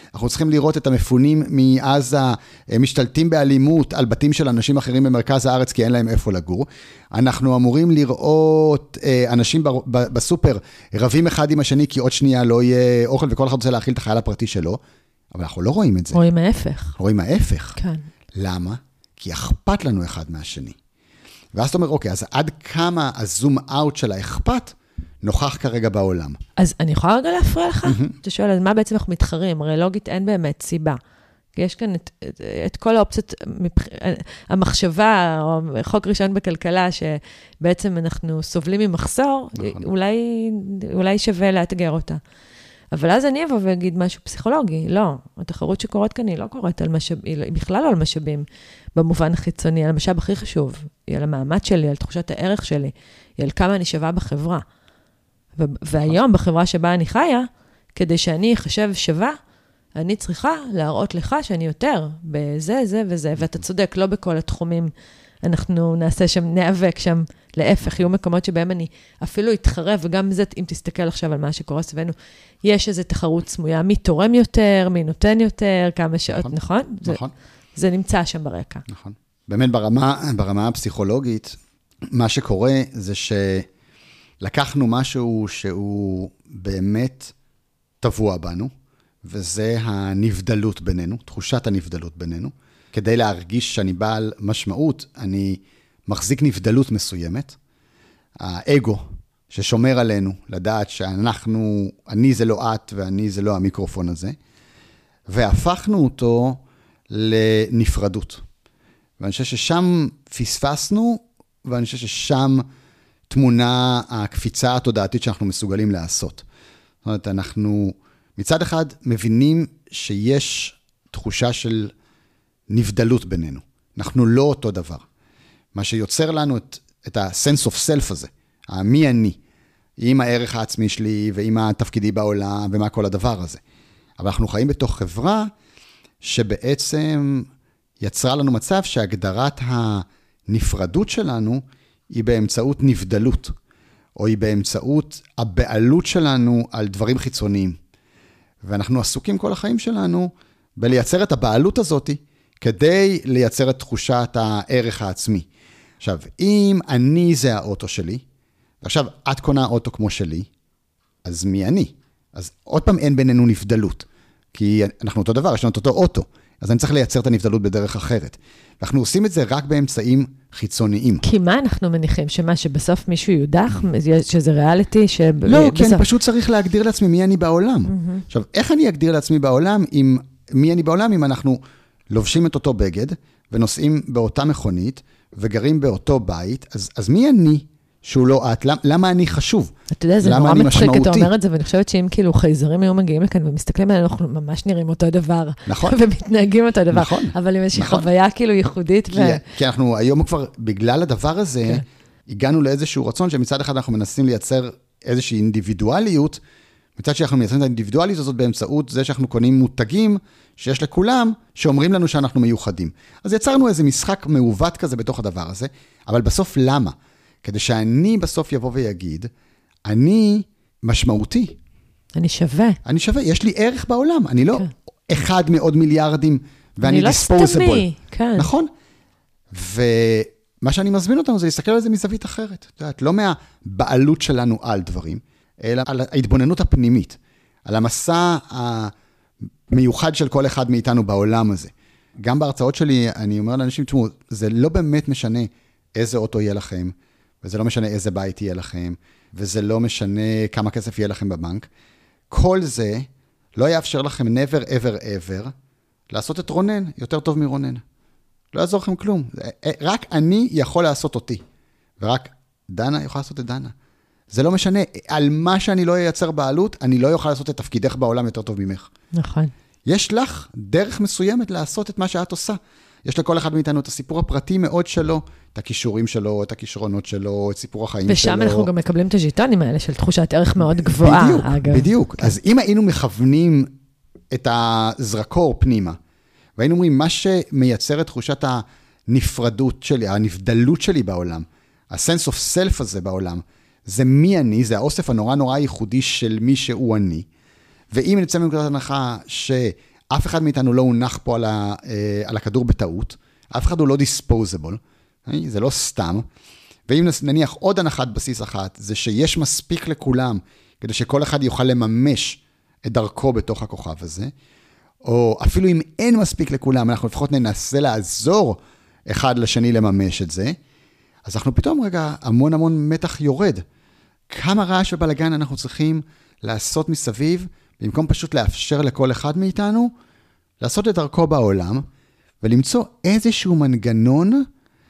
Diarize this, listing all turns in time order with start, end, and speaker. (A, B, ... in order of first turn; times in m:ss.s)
0:00.1-0:14.8 A
0:15.3-0:16.2 A
0:16.1-0:17.0 B
0:17.0-0:17.8 A
0:17.8-0:18.0 B
0:18.4-0:20.8 A
0:21.5-0:26.4 A
0:26.6-0:31.0 B
0:27.9-0:28.1 A
0:31.6-0:42.2 B
0:39.6-0:39.8 A
0:42.9-0:54.6 B
0:55.6-0:59.4 B
1:00.0-1:04.9 B
1:05.4-1:17.2 B
1:17.1-1:17.3 A
1:17.8-1:18.8 B
1:18.9-1:21.6 A
1:22.1-1:23.7 A
1:24.4-1:27.3 A
1:28.0-1:28.7 A
1:29.2-1:37.6 A
1:38.4-1:44.4 A
1:45.3-1:48.4 A
1:49.2-1:52.6 A
1:53.3-1:56.4 A
1:57.0-2:01.9 A
2:02.7-2:05.0 A
2:05.7-2:09.4 A
2:10.0-2:13.6 A
2:14.2-2:15.5 A
2:16.2-2:17.5 A
2:18.0-2:23.5 A
2:24.2-2:27.8 A
2:28.6-2:35.5 A
2:36.0-2:38.2 A
2:38.8-2:40.5 A
2:41.2-2:51.2 A
2:51.2-2:56.1 B
2:55.4-3:01.6 A
2:57.9-2:58.2 B
3:02.1-3:11.3 A
3:09.9-3:19.4 B
3:15.6-3:16.0 A
3:16.9-3:18.1 A
3:19.1-3:26.4 A
3:27.0-3:39.3 A
3:39.9-3:41.6 A
3:42.1-3:42.8 B
3:42.8-3:47.9 A
3:46.8-3:48.5 B
3:48.4-3:48.7 A
3:49.5-3:58.9 A
3:59.7-4:11.7 A
4:12.3-4:15.5 A
4:16.1-4:17.8 A
4:18.5-4:21.4 A
4:22.0-4:23.7 A
4:24.3-4:28.9 A
4:29.2-4:29.5 B
4:29.9-4:38.7 A
4:38.1-4:42.3 B
4:40.6-4:43.7 A
4:44.3-4:46.0 A
4:46.6-4:57.3 A
4:57.9-5:06.2 A
5:06.9-5:14.3 A
5:15.0-5:20.6 A
5:21.2-5:23.6 A
5:24.3-5:29.9 A
5:30.6-5:31.8 A
5:32.4-5:34.4 A